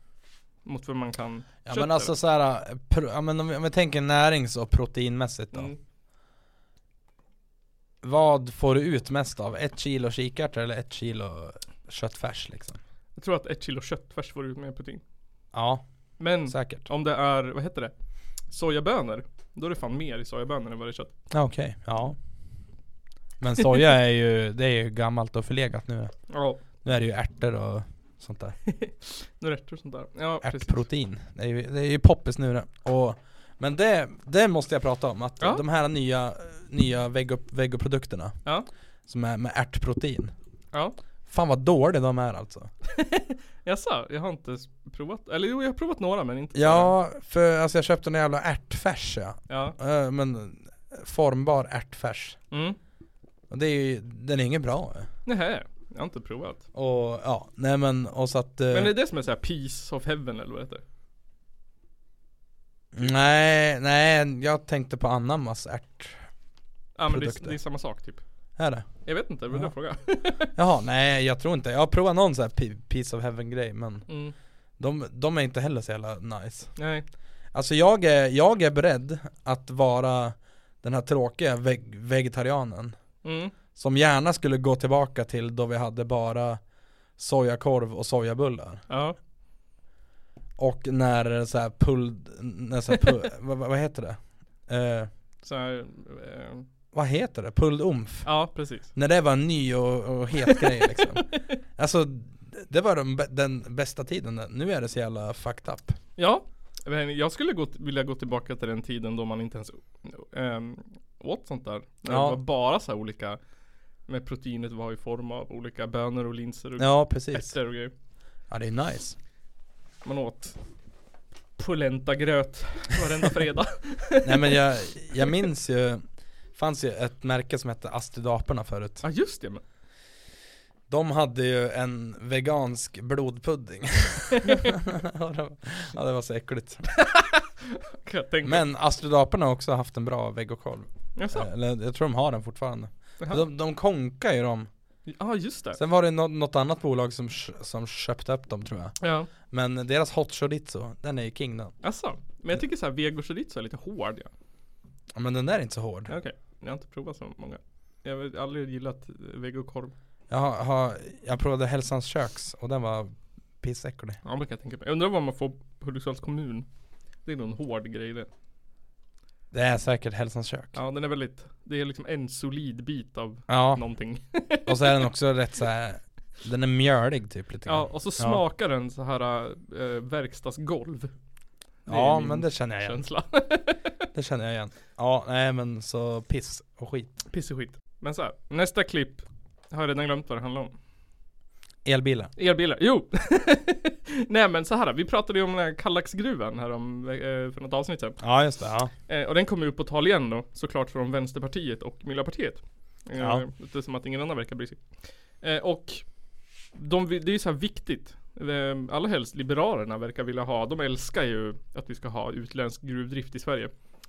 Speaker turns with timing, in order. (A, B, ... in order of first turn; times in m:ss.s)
0:00.6-0:02.1 A
0:01.7-0:05.7 B
0:05.5-0:05.8 A
0:08.0-0:12.8 B
0:13.2-0:15.0 A
0:15.5-0:15.8 B
0:16.2-0:17.9 A
0:16.5-0:16.9 B
0:18.5-0:21.1 A
0:21.3-0:22.2 B
0:23.4-0:26.1 B
0:26.3-0:26.6 A
0:26.8-0:28.6 B
0:28.7-0:30.8 A
0:30.4-0:38.4 B
0:39.1-0:40.3 B
0:41.3-0:42.7 B
0:42.9-0:47.0 A
0:46.6-0:52.4 B
0:49.5-0:49.8 A
0:52.5-0:52.8 A
0:53.5-0:55.1 B
0:55.3-0:56.6 A
0:56.7-0:58.9 B
0:58.7-1:00.8 A
1:02.9-1:06.2 B
1:07.0-1:08.2 A
1:07.1-1:07.6 B
1:08.6-1:08.9 B
1:09.0-1:10.5 A
1:10.6-1:14.1 B
1:14.1-1:14.3 A
1:14.8-1:16.7 B
1:16.8-1:17.1 A
1:17.5-1:23.0 B
1:23.2-1:23.5 A
1:23.8-1:26.6 B
1:27.2-1:28.8 B
1:28.9-1:29.2 A
1:30.6-1:35.1 B
1:35.4-1:36.6 A
1:36.9-1:38.3 B
1:38.2-1:38.9 A
1:38.9-1:41.3 B
1:40.5-1:41.4 A
1:41.8-1:46.0 B
1:46.2-1:53.4 A
1:52.1-1:52.4 B
1:54.1-1:57.9 A
1:56.8-1:57.5 B
1:58.5-1:59.2 B
2:00.0-2:00.6 A
2:01.6-2:04.6 A
2:04.2-2:06.0 B
2:06.6-2:09.0 B
2:09.0-2:09.6 A
2:10.9-2:16.8 B
2:17.0-2:18.6 A
2:18.4-2:24.7 B
2:21.2-2:21.5 A
2:25.1-2:25.8 A
2:25.8-2:31.7 B
2:29.0-2:29.3 A
2:31.8-2:34.3 A
2:35.1-2:36.1 B
2:36.1-2:39.9 A
2:40.3-2:44.2 B
2:44.2-2:46.7 A
2:47.2-2:48.3 A
2:49.5-2:50.8 B
2:50.7-2:55.0 A
2:53.5-2:53.8 B
2:54.7-2:58.4 B
2:57.7-3:01.1 A
3:01.9-3:03.0 B
3:01.9-3:03.9 A
3:04.1-3:07.1 B
3:07.3-3:10.7 A
3:11.8-3:12.3 B
3:12.4-3:18.2 A
3:18.2-3:18.9 B
3:19.1-3:24.8 A
3:23.2-3:23.4 B
3:25.4-3:26.1 A
3:26.7-3:33.7 A